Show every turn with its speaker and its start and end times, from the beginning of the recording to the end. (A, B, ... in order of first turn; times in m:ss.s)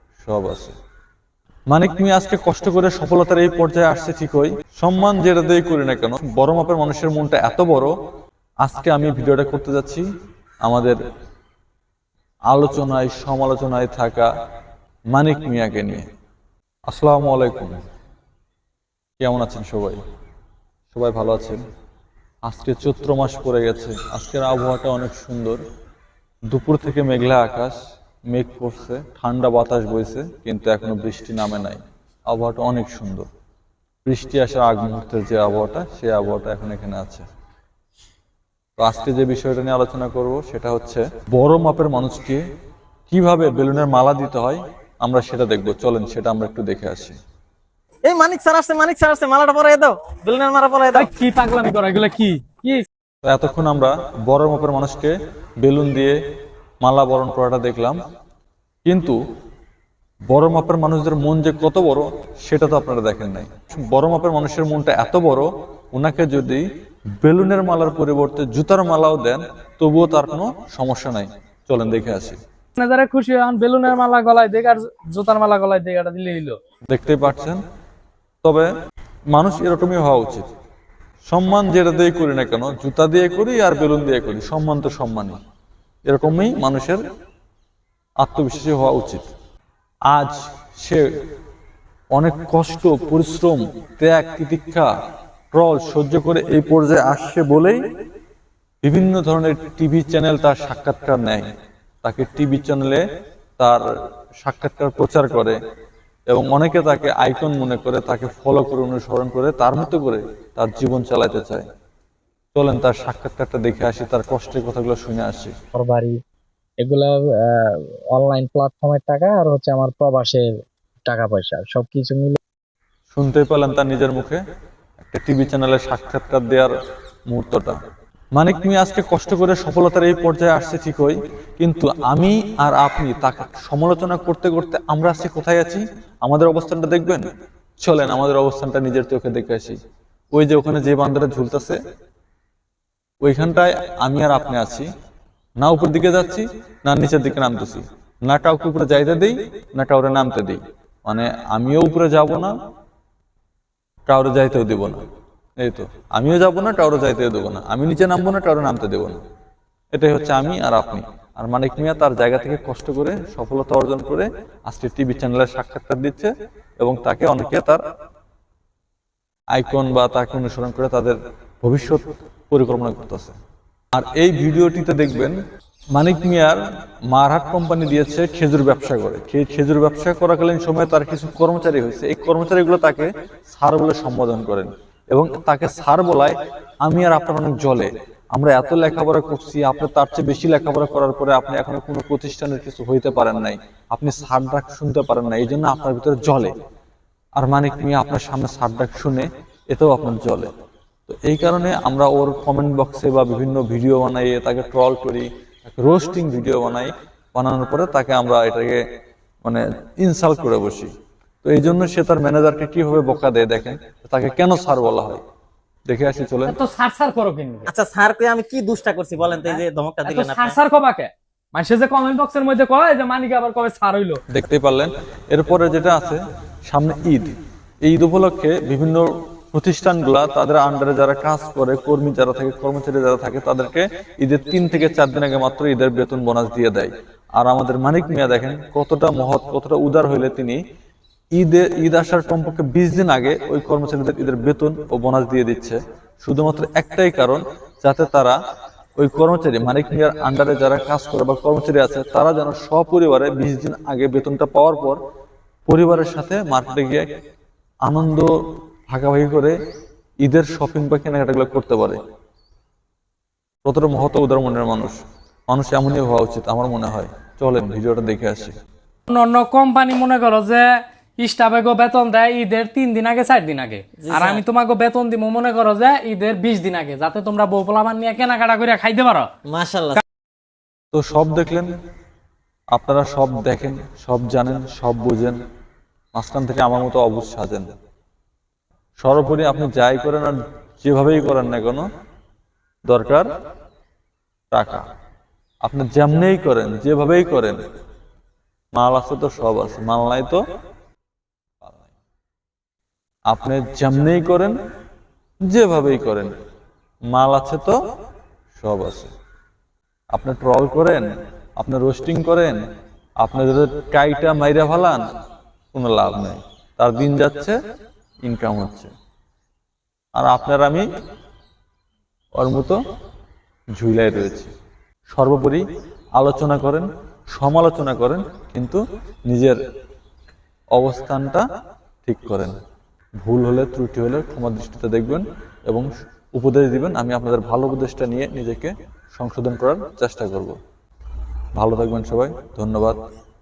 0:00.2-0:00.7 A
0:01.7-0:07.9 A
0:08.6-0:10.1 A
0:10.6-0:11.0 A
0:12.5-0:14.3 A
0:15.1-0:16.1 A
0:16.9-0:17.8 A
0:19.2-0:20.0 A
0:20.9-0:21.6 A
0:22.5-0:25.6 A
0:26.5-0:27.8 A
0:28.3-0:33.3 A
0:34.1-0:37.2 A
0:38.8-0:42.4 A
0:43.1-0:47.2 A
0:48.0-0:51.1 B
0:50.9-0:52.9 C
0:53.2-0:56.2 A
0:56.8-0:58.0 A
0:58.9-0:59.2 A
1:00.3-1:06.6 A
1:07.2-1:12.4 A
1:12.8-1:16.6 C
1:16.9-1:17.6 A
1:18.4-1:18.7 A
1:19.3-1:20.5 A
1:21.3-1:25.4 A
1:26.1-1:27.0 A
1:28.2-1:29.3 A
1:30.1-1:31.1 A
1:32.1-1:34.9 A
1:35.5-1:37.8 A
1:38.8-1:41.5 A
1:42.0-1:43.0 A
1:43.6-1:43.8 A
1:44.4-1:45.6 A
1:46.3-1:51.7 A
1:52.6-1:55.5 A
1:55.8-1:56.2 D
1:56.8-2:00.5 D
2:01.1-2:02.4 D
2:03.1-2:04.4 A
2:05.1-2:06.7 A
2:07.3-2:07.8 A
2:08.4-2:17.3 A
2:17.8-2:19.8 A
2:20.3-2:21.8 A
2:23.2-2:24.9 A
2:25.6-2:32.5 A
2:34.1-2:35.0 A
2:35.6-2:39.2 A
2:39.9-2:47.8 A
2:49.5-2:53.3 A
2:53.9-2:55.4 A
2:55.9-3:16.5 A
3:17.4-3:20.5 A
3:21.1-3:28.8 A
3:29.4-3:30.9 A
3:31.4-3:35.2 A
3:35.9-3:36.6 A
3:36.5-3:37.7 C
3:37.7-3:40.6 B
3:39.4-3:44.2 C
3:44.3-4:00.6 A
4:01.4-4:08.4 A
4:09.0-4:15.0 A
4:15.7-4:17.1 A
4:17.8-4:18.3 A
4:18.9-4:19.6 A
4:20.2-4:22.0 A
4:23.7-4:25.0 A
4:25.5-4:28.5 A
4:29.1-4:39.3 C
4:34.0-4:34.4 B
4:39.5-4:40.0 B
4:40.9-4:41.7 A
4:42.7-4:45.4 A
4:46.1-4:47.7 A
4:49.0-4:51.9 A
4:52.9-4:53.3 A
4:54.5-4:54.9 A
4:55.6-4:57.6 A
4:58.7-5:00.4 A
5:03.3-5:04.6 A
5:05.5-5:06.3 A
5:07.1-5:07.8 A
5:08.6-5:09.1 A
5:10.1-5:11.1 A
5:11.6-5:12.6 A
5:13.2-5:15.1 A
5:15.7-5:17.6 A
5:18.2-5:18.9 A
5:20.2-5:20.9 A
5:22.4-5:22.8 A
5:23.8-5:24.5 A
5:25.1-5:25.6 A
5:26.2-5:29.6 A
5:30.8-5:31.4 A
5:32.0-5:32.5 A
5:33.2-5:40.6 A
5:41.6-5:43.0 A